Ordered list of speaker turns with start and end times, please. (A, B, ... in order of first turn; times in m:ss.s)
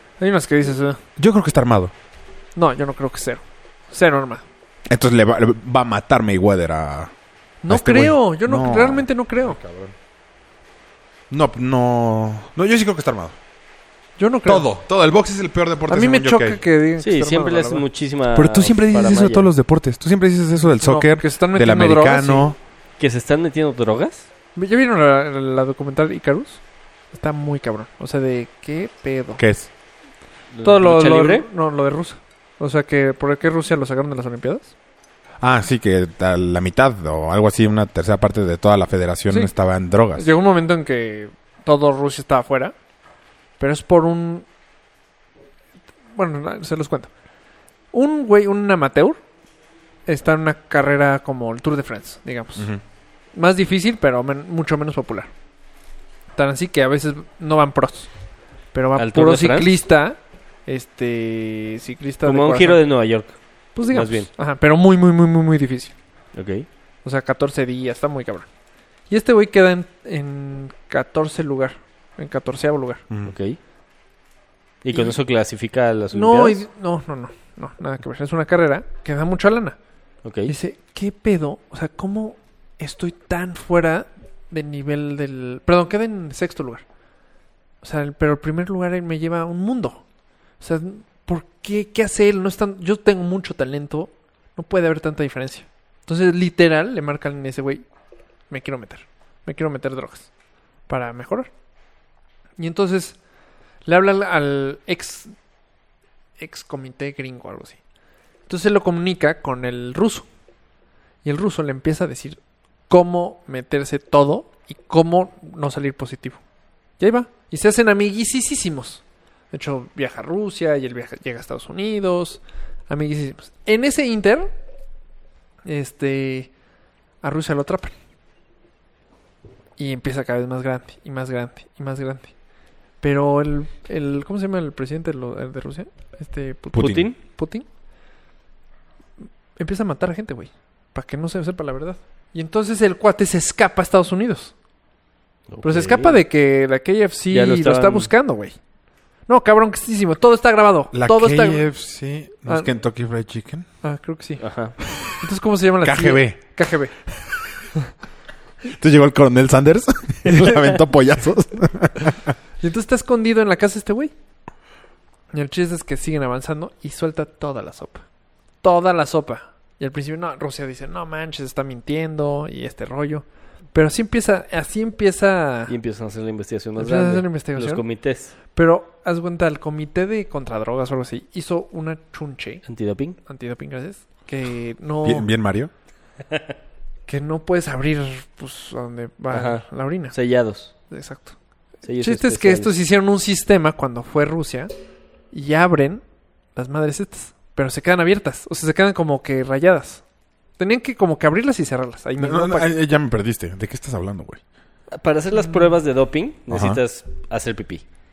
0:00.2-0:01.0 A
0:01.2-0:01.9 B
0:02.6-0:04.4 A
0:04.9-0:07.1 B
0:07.6-0:09.6 A
0:07.7-0:09.9 B
0:11.3-0:13.4 B
0:14.2-0:14.7 A
0:14.4-0:16.6 B
0:15.9-0:17.8 A
0:17.0-0:19.5 C
0:18.3-0:22.6 B
0:20.8-0:22.5 A
0:23.0-0:24.3 C
0:24.6-0:26.6 A
0:27.1-0:29.4 A
0:29.4-0:29.7 B
0:30.5-0:31.4 C
0:30.6-0:34.7 A
0:35.4-0:40.3 B
0:40.1-0:42.7 A
0:43.6-0:44.4 A
0:46.1-0:47.1 A
0:47.9-0:49.2 A
0:50.1-0:52.7 A
0:53.3-0:55.3 A
0:56.4-0:58.1 A
0:58.7-1:02.8 A
0:59.0-0:59.8 C
1:02.2-1:03.4 C
1:03.8-1:05.9 A
1:03.9-1:04.3 C
1:06.3-1:06.7 C
1:07.0-1:08.5 A
1:09.1-1:13.0 A
1:13.1-1:13.3 B
1:13.2-1:13.6 C
1:14.8-1:16.6 C
1:16.1-1:19.8 A
1:20.2-1:20.5 C
1:20.5-1:26.8 A
1:27.8-1:30.0 A
1:30.6-1:37.8 A
1:38.5-1:40.3 A
1:40.9-1:41.5 A
1:42.6-1:43.2 A
1:43.8-1:45.3 A
1:46.4-1:47.8 A
1:48.5-1:50.2 A
1:51.2-1:52.4 A
1:52.9-1:56.4 A
1:57.0-2:04.5 A
2:05.6-2:06.5 A
2:07.2-2:07.9 A
2:09.8-2:12.3 A
2:13.0-2:17.6 A
2:16.7-2:17.1 B
2:16.8-2:17.1 C
2:19.6-2:24.5 A
2:25.5-2:26.2 C
2:25.6-2:28.6 A
2:27.3-2:28.1 C
2:29.3-2:31.6 A
2:30.9-2:33.7 B
2:33.8-2:34.4 A
2:34.4-2:34.8 C
2:35.2-2:36.9 A
2:35.8-2:36.4 B
2:38.6-2:42.3 B
2:40.3-2:40.7 C
2:42.6-2:44.1 A
2:45.3-2:48.0 A
2:48.6-2:55.8 A
2:55.7-2:58.3 C
2:56.8-2:57.8 A
2:58.5-3:02.6 A
3:02.6-3:03.2 C
3:03.3-3:05.3 A
3:05.0-3:05.7 B
3:07.1-3:10.1 A
3:09.3-3:10.7 C
3:10.9-3:11.4 A
3:11.8-3:12.7 C
3:12.0-3:14.7 A
3:15.3-3:16.0 A
3:16.6-3:20.0 A
3:20.6-3:22.7 A
3:22.2-3:24.4 B
3:24.9-3:27.8 C
3:25.4-3:25.7 A
3:26.5-3:26.8 B